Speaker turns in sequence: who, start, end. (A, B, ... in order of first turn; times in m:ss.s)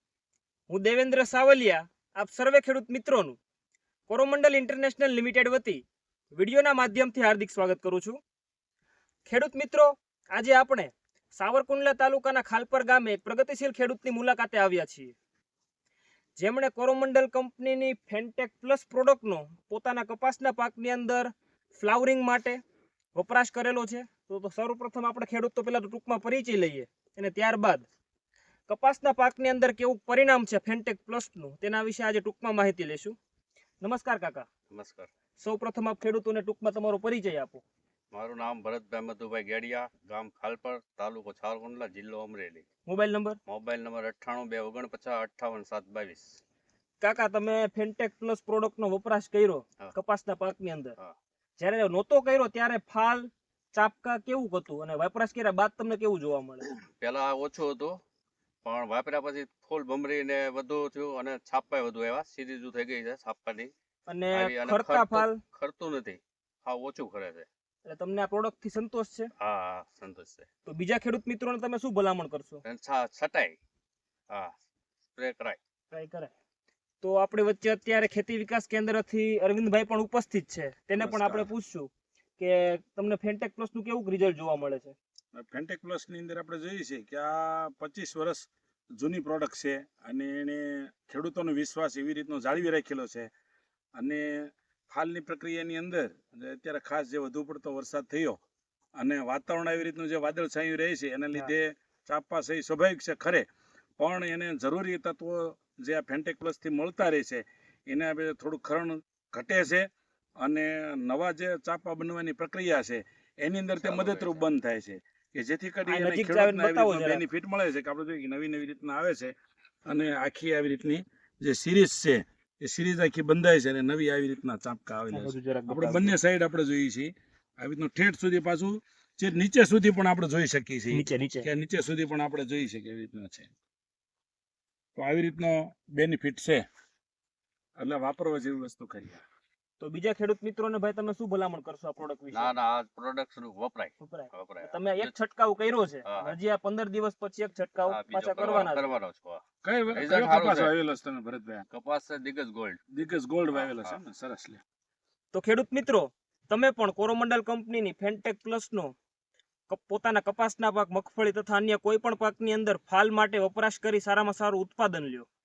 0:00.7-0:03.4 A
0:04.1-0:05.8 A
0:06.3-0:08.2 A
0:09.3-0:15.1 A
0:16.4-0:22.6 A
0:23.1-0:27.8 A
0:28.7-0:33.2 A
0:33.8-0:34.5 A
0:34.7-0:35.1 B
0:35.4-0:37.6 A
0:38.1-0:42.6 B
0:42.8-0:43.4 A
0:43.4-0:46.4 B
0:47.0-0:51.0 A
0:51.6-0:56.7 A
0:57.0-0:58.0 B
0:58.6-1:03.7 B
1:04.1-1:05.4 A
1:04.3-1:07.4 B
1:07.9-1:09.3 A
1:09.4-1:10.5 B
1:10.6-1:12.6 A
1:12.6-1:13.6 B
1:15.2-1:15.6 B
1:15.9-1:16.3 A
1:17.0-1:24.9 A
1:20.9-1:21.5 C
1:25.3-1:33.3 C
1:34.0-1:38.4 C
1:39.0-1:43.4 C
1:44.0-1:49.9 C
1:50.4-1:59.3 C
1:53.8-1:54.4 B
1:55.9-1:57.2 A
1:59.9-2:13.5 C
2:05.1-2:06.2 A
2:10.9-2:11.5 A
2:15.0-2:16.6 C
2:17.8-2:19.2 C
2:19.8-2:22.5 A
2:22.3-2:25.1 B
2:24.0-2:28.9 A
2:26.0-2:26.4 B
2:27.9-2:30.8 B
2:29.6-2:31.7 C
2:31.7-2:32.8 B
2:32.9-2:34.6 C
2:33.5-2:34.0 B
2:35.3-2:38.9 A
2:39.7-2:45.3 A